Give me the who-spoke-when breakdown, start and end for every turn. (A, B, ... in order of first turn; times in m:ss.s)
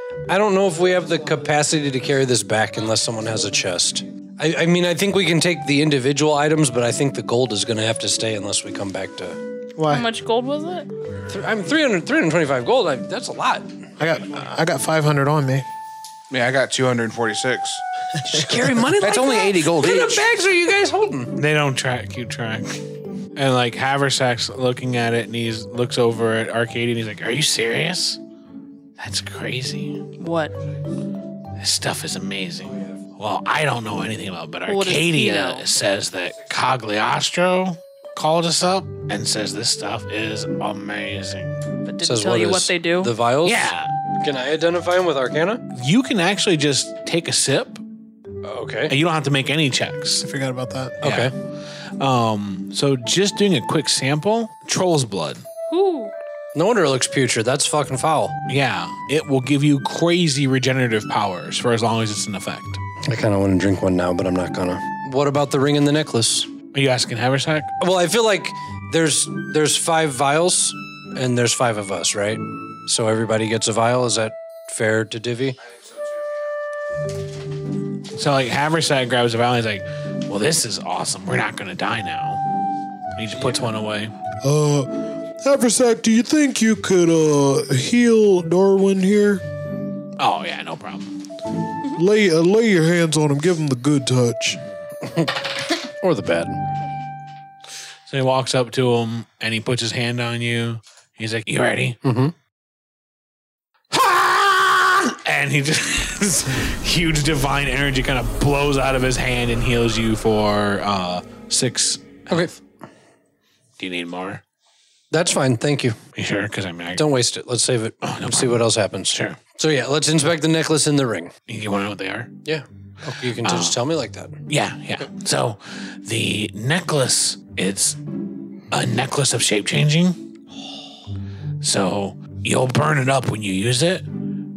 0:00.3-0:09.4 A
0:09.8-0:10.1 B
0:09.9-0:10.9 C
0:11.3-0:13.7 A
0:14.0-0:15.7 B
0:16.3-0:17.8 D
0:18.2-0:21.3 A
0:18.3-0:18.7 B
0:19.0-0:20.3 D
0:21.4-0:22.8 E
0:23.4-0:28.2 E
0:29.0-0:30.1 E
0:30.2-0:30.6 C
0:31.6-0:41.6 E
0:34.7-0:35.7 C
0:41.8-0:43.1 C
0:42.0-0:45.6 A
0:43.4-0:43.9 E
0:45.7-0:47.8 E
0:48.4-0:48.9 A
0:48.9-0:50.3 E
0:50.2-0:51.0 B
0:51.0-0:51.3 A
0:51.0-0:51.3 E
0:52.0-0:55.4 E
0:55.7-0:56.1 C
0:56.5-0:58.4 A
0:58.5-1:02.8 E
1:03.0-1:06.5 A
1:06.7-1:07.7 E
1:07.8-1:15.6 A
1:18.1-1:22.4 E
1:23.2-1:24.1 E
1:23.4-1:23.7 A
1:24.4-1:29.4 B
1:30.2-1:31.2 E
1:31.9-1:34.6 B
1:35.0-1:36.6 A
1:38.1-1:42.0 E
1:42.0-1:42.3 A
1:43.9-1:52.5 E
1:52.3-1:52.6 A
1:53.8-1:54.4 E
1:55.1-1:56.0 A
1:56.1-1:57.1 E
1:57.0-2:01.3 A
1:58.0-1:59.4 E
2:01.5-2:02.3 E
2:02.4-2:04.3 A
2:03.4-2:03.8 E
2:04.5-2:08.0 E
2:08.7-2:10.2 E
2:11.6-2:14.1 E